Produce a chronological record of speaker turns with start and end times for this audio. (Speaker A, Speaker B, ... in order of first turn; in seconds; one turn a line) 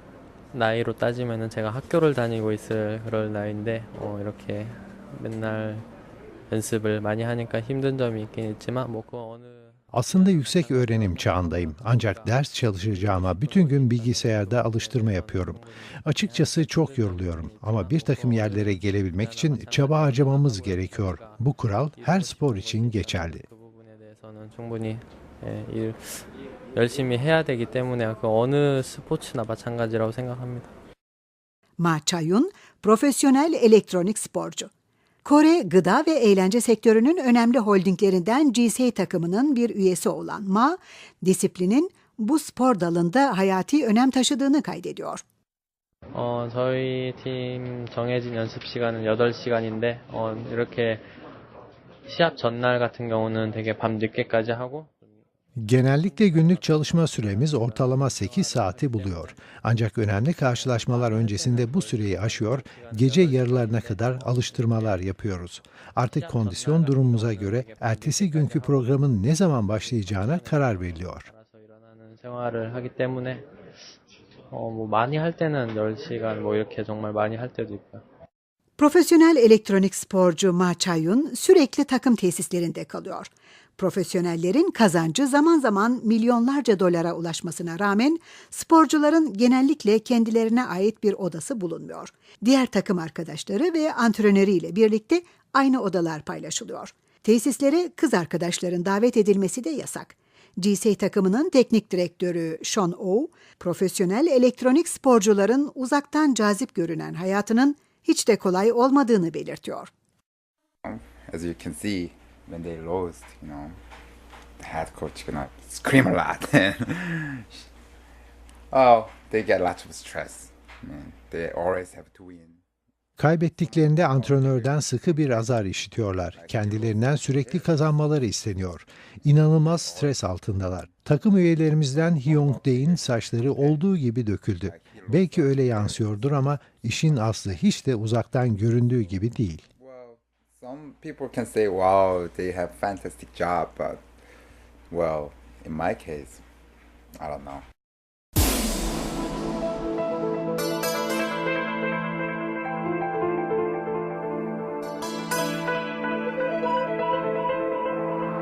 Speaker A: 0.5-5.9
Speaker A: 6.5-30.7
Speaker B: 9.9-23.4
Speaker C: 31.8-34.7
Speaker C: 35.2-45.2
Speaker A: 46.1-51.0
Speaker A: 52.1-55.1
Speaker B: 55.6-71.3
Speaker A: 56.0-59.4
Speaker A: 60.5-65.0
Speaker A: 66.1-73.5
Speaker A: 74.5-78.0
Speaker C: 78.8-109.9
Speaker D: 110.8-113.8
Speaker D: 114.6-117.7
Speaker D: 118.7-122.6
Speaker B: 123.2-139.6
Speaker D: 123.5-125.6
Speaker D: 126.2-127.9
Speaker D: 129.6-130.9
Speaker D: 132.0-133.8
Speaker D: 134.5-137.6
Speaker D: 139.8-144.0
Speaker D: 144.9-146.4
Speaker D: 147.2-147.7